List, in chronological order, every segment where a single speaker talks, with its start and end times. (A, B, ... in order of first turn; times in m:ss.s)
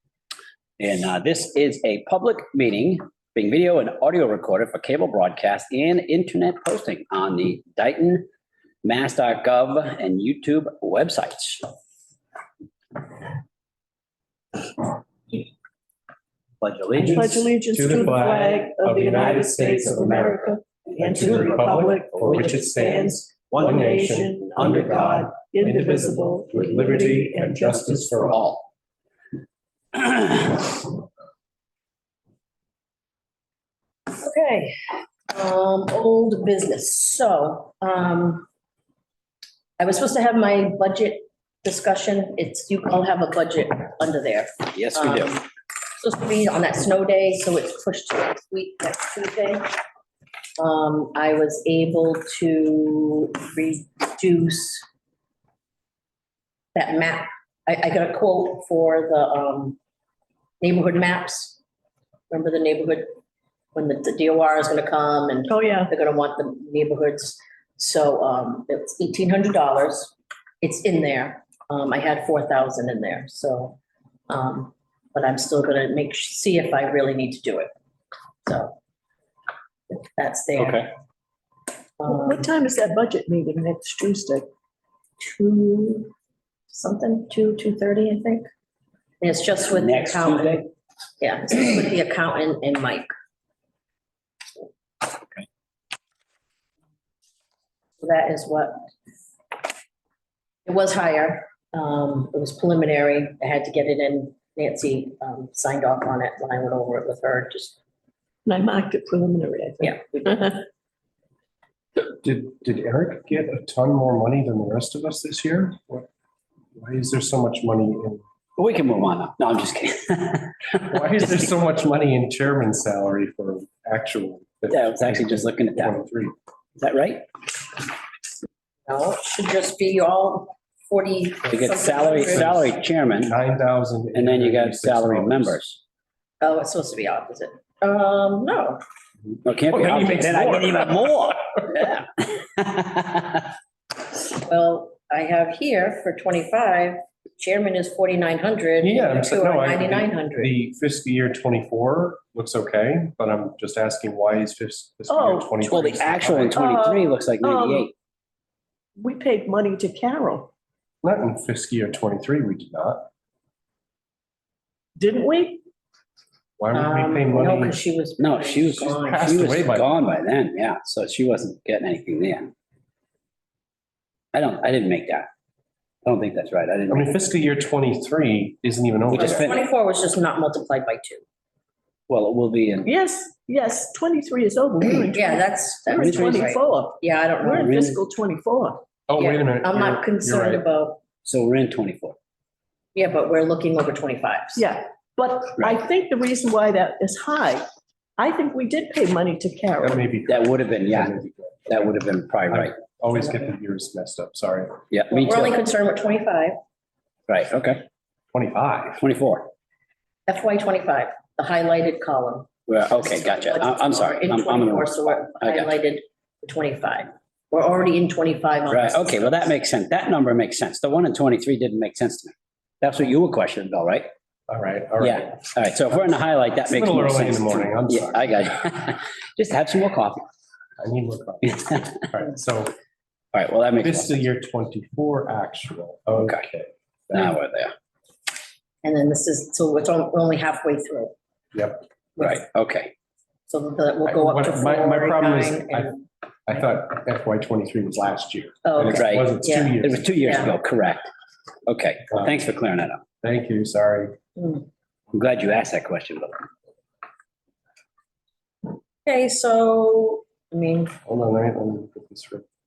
0:00.8-0:08.2 A
0:08.8-0:11.6 A
0:16.6-0:17.4 A
0:16.9-0:28.5 B
0:17.1-0:28.1 C
0:20.9-0:22.6 A
0:23.4-0:23.8 A
0:24.6-0:25.0 A
0:28.2-0:28.6 A
0:29.9-0:30.7 A
0:34.1-0:34.8 D
0:35.3-0:38.4 D
0:39.8-0:49.7 D
0:44.7-0:45.3 A
0:50.6-0:54.8 D
0:56.7-0:59.8 D
1:00.6-1:01.6 D
1:02.3-1:03.1 D
1:03.7-1:17.7 D
1:05.5-1:05.9 C
1:18.4-1:18.8 D
1:19.9-1:20.9 D
1:20.6-1:20.9 A
1:22.0-1:22.5 D
1:22.0-1:24.5 C
1:25.2-1:26.1 D
1:26.7-1:28.5 D
1:29.2-1:33.1 D
1:29.7-1:30.6 A
1:38.0-1:38.9 D
1:40.6-1:47.8 D
1:48.4-1:50.6 C
1:49.8-1:50.6 D
1:52.0-1:56.1 B
1:56.7-1:58.2 B
1:58.6-2:01.0 A
2:00.8-2:06.3 B
2:04.7-2:06.0 A
2:06.8-2:07.2 A
2:08.9-2:12.6 D
2:11.5-2:13.3 A
2:12.2-2:15.6 B
2:14.1-2:15.8 A
2:16.4-2:18.8 D
2:19.4-2:23.5 A
2:19.7-2:21.2 B
2:24.3-2:30.5 D
2:28.8-2:36.6 B
2:35.1-2:35.9 C
2:35.6-2:37.9 A
2:36.5-2:37.9 C
2:39.0-2:40.5 C
2:41.0-2:43.1 B
2:45.0-2:45.6 C
2:46.6-2:47.8 B
2:46.7-2:49.4 D
2:48.2-2:52.5 A
2:48.9-2:49.9 B
2:54.3-2:55.3 A
2:56.0-2:57.1 A
2:56.9-2:59.5 B
2:59.1-2:59.6 A
2:59.2-3:01.2 D
3:02.1-3:02.9 A
3:02.8-3:08.8 C
3:05.1-3:07.7 D
3:06.0-3:06.5 A
3:07.5-3:08.0 A
3:09.1-3:10.6 B
3:09.2-3:11.0 D
3:11.2-3:12.2 A
3:12.9-3:14.6 D
3:14.6-3:17.6 C
3:18.2-3:20.1 C
3:19.8-3:24.8 B
3:20.3-3:21.1 A
3:21.7-3:22.8 A
3:24.9-3:25.6 A
3:25.1-3:26.6 D
3:27.3-3:27.8 A
3:28.3-3:29.0 B
3:29.0-3:29.5 A
3:30.3-3:39.3 D
3:32.7-3:35.7 A
3:38.7-3:44.1 A
3:44.5-3:45.4 B
3:45.0-3:50.2 A
3:46.6-3:48.4 B
3:50.8-3:52.8 B
3:51.5-3:51.9 A
3:53.3-3:54.2 A
3:53.8-3:57.4 B
3:56.1-3:56.4 A
3:57.1-3:57.7 A
3:58.8-4:01.1 D
4:01.5-4:01.8 B
4:02.2-4:02.9 A
4:03.5-4:06.0 D
4:04.0-4:05.9 B
4:06.5-4:10.1 B
4:08.6-4:10.5 D
4:08.9-4:11.1 A
4:11.7-4:13.0 A
4:13.2-4:14.2 B
4:14.4-4:14.6 D
4:15.1-4:16.4 A
4:19.0-4:20.9 D
4:21.0-4:22.4 B